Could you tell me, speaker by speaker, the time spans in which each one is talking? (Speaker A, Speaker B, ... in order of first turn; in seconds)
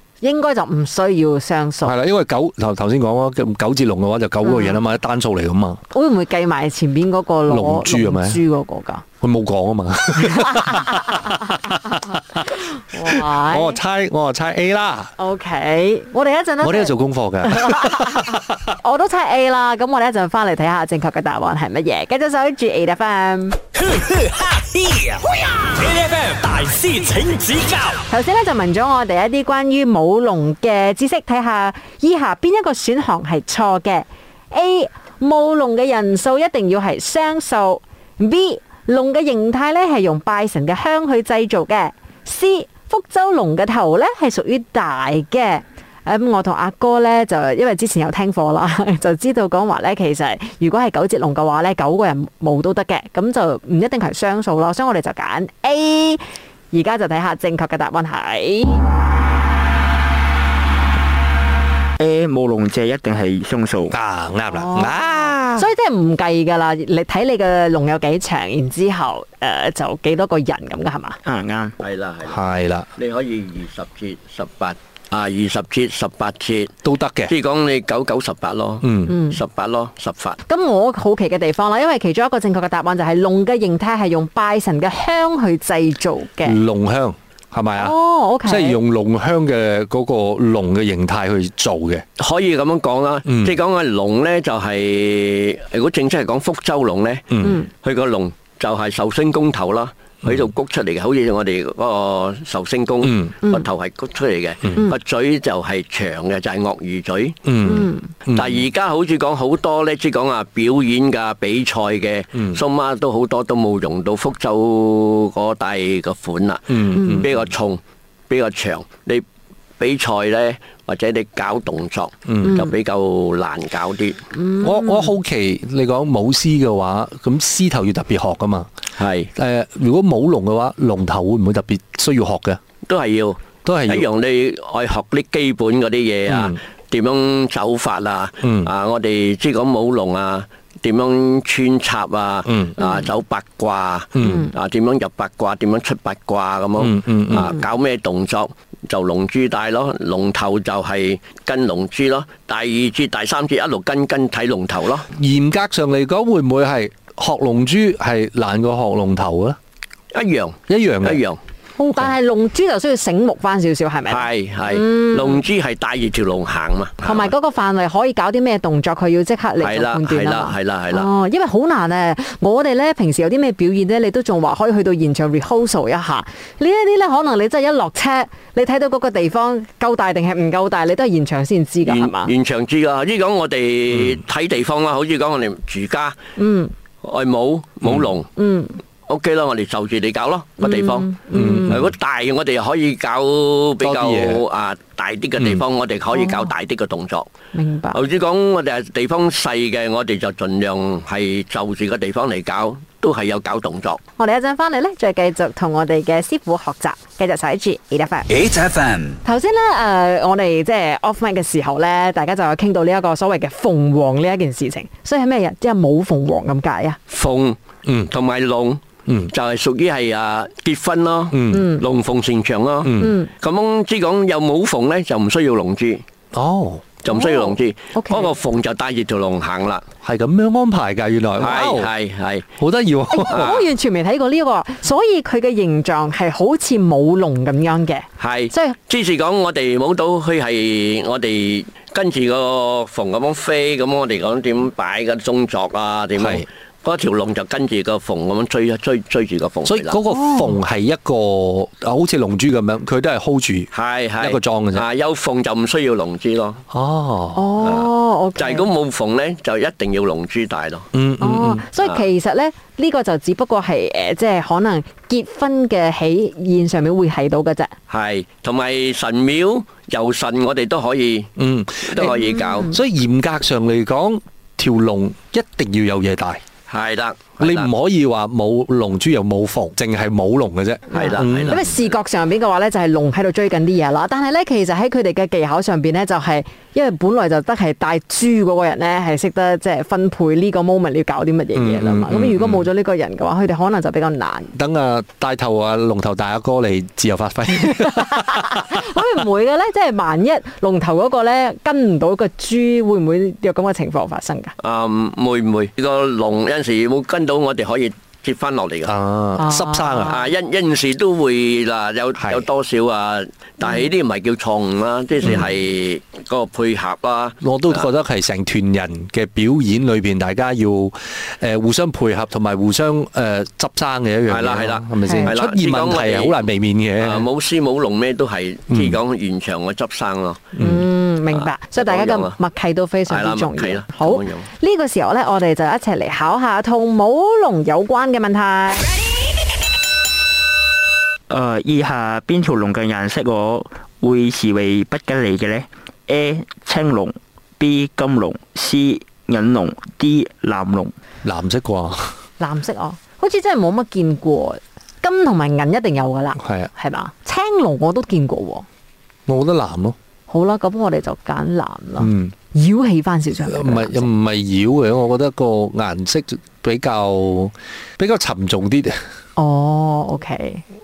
Speaker A: 0.2-1.9, 4.4-4.8, 5.9-9.0, 10.2-11.9, 12.7-13.8, 15.2-23.6, 28.1-58.8, 64.5-71.2, 79.1-79.4, 80.5-86.6, 87.8-88.8, 107.6-108.1, 117.0-117.2, 122.4-122.7, 124.3-125.1, 142.8-143.1, 144.2-144.5, 161.8-165.4, 167.0-182.3, 186.4-186.7, 188.4-188.8, 190.6-191.8, 196.1-196.5, 197.5-198.0, 204.2-208.3, 209.2-217.0, 221.5-221.8, 223.0-223.3, 227.1-228.3, 233.1-238.8, 250.1-250.6, 257.4-258.7, 261.2-267.7, 272.1-272.8, 280.9-294.6, 297.7-304.5, 309.4-310.2, 325.0-325.3, 330.6-338.9, 352.4-358.6, 360.3-364.1, 369.4-370.6
Speaker B: 1.8-5.8, 7.5-8.4, 9.2-15.1, 16.6-18.7, 63.9-65.7, 72.3-72.9, 76.8-77.3, 78.8-79.2, 86.4-92.0, 93.2-93.6, 97.3-97.6, 103.0-103.3, 104.6-104.9, 107.4-108.7, 112.3-112.6, 116.7-117.5, 122.3-122.6, 124.6-128.7, 129.3-132.6, 133.6-134.1, 136.3-136.6, 138.4-138.7, 142.4-142.8, 144.2-144.5, 146.8-147.5, 155.1-159.6, 160.7-161.2, 183.9-184.2, 191.3-191.9, 193.8-194.4, 217.8-218.1, 219.1-219.3, 221.3-221.7, 222.8-223.2, 226.3-226.9, 230.0-231.9, 232.6-233.7, 246.2-246.5, 249.7-254.8, 256.7-257.5, 260.9-261.6, 271.4-276.4, 277.4-281.8, 291.6-292.7, 294.6-298.7, 308.9-310.2, 312.2-312.5, 317.4-327.3, 328.7-329.0, 330.6-330.9, 351.2-352.1, 356.4-356.7, 359.3-360.0, 362.0-362.3, 363.4-369.0
Speaker C: 23.8-28.0, 208.5-209.1
Speaker D: 62.0-63.9, 71.2-71.8, 341.3-350.9
Speaker E: 71.8-72.4, 73.0-76.7, 77.3-80.4, 92.2-107.4, 108.3-119.2, 119.8-124.2, 129.0-129.3, 132.9-155.1, 160.1-161.4, 164.1-167.3, 169.6-171.1, 181.8-186.2, 187.0-188.3, 189.1-197.3, 197.9-204.0, 217.1-217.6, 218.1-226.0, 227.0-229.8, 231.4-232.4, 233.3-233.7, 238.2-250.0, 253.7-256.6, 257.6-260.9, 267.9-271.3, 271.8-272.7, 276.7-277.7, 280.9-281.8, 304.6-308.9, 310.1-317.9, 324.3-326.4, 327.0-330.6, 331.3-332.4, 333.1-334.5